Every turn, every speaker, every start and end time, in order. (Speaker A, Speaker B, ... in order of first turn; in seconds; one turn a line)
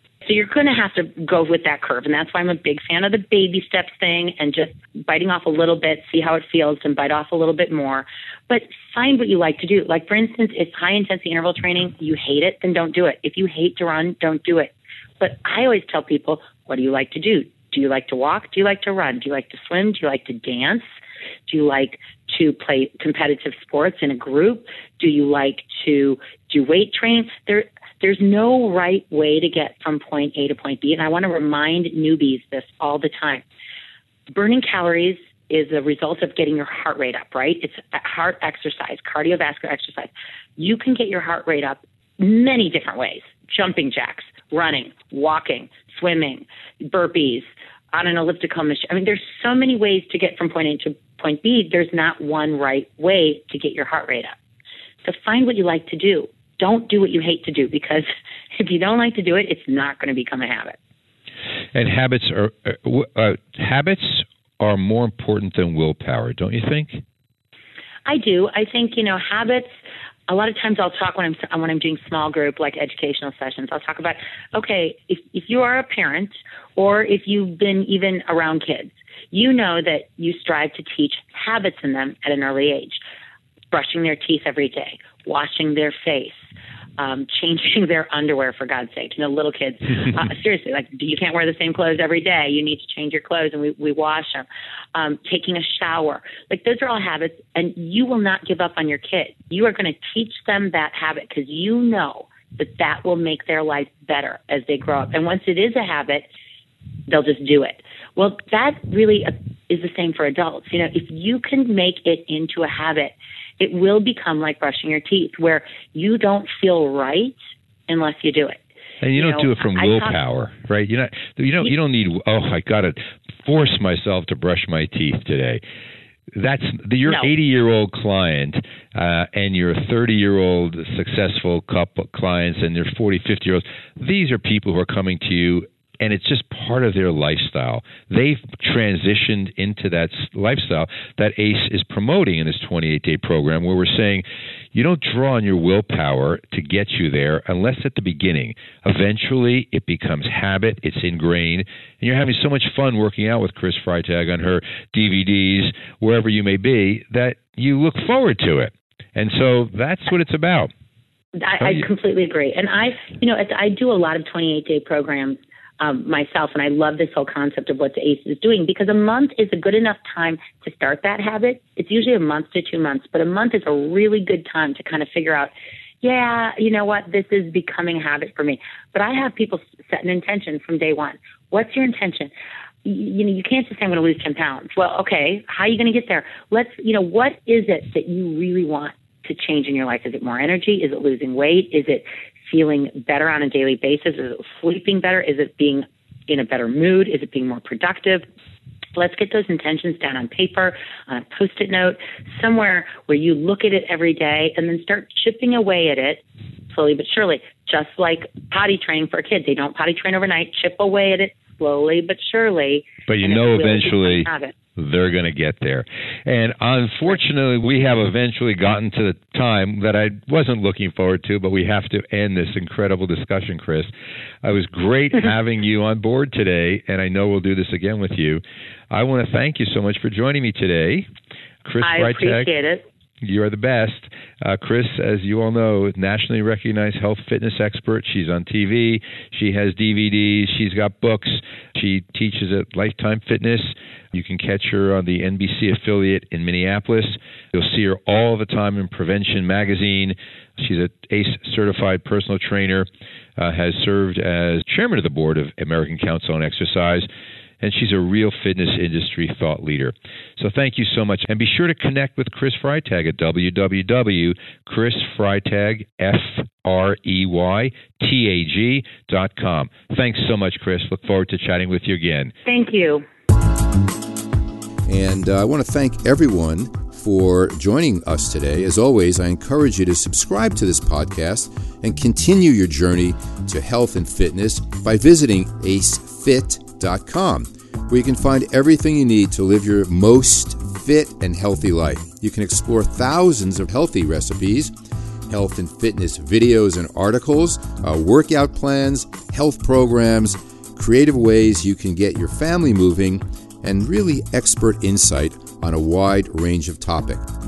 Speaker A: 0.2-20.8
Speaker A: 21.5-33.4
Speaker A: 34.3-54.4
Speaker A: 55.0-60.8
Speaker B: 61.7-67.0
Speaker A: 68.1-69.7
Speaker A: 70.3-83.0
Speaker A: 83.7-86.4
Speaker A: 87.0-106.3
Speaker A: 107.1-118.6
Speaker B: 119.0-125.6
Speaker A: 119.2-120.2
Speaker B: 126.3-160.7
Speaker A: 127.1-127.3
Speaker A: 161.4-182.3
Speaker A: 182.8-198.2
Speaker A: 198.9-214.6
Speaker B: 213.1-223.9
Speaker B: 224.4-231.1
Speaker B: 231.7-232.5
Speaker A: 231.8-232.8
Speaker B: 233.2-257.1
Speaker B: 257.6-272.3
Speaker A: 272.4-273.1
Speaker C: 274.9-294.7
Speaker C: 295.3-307.3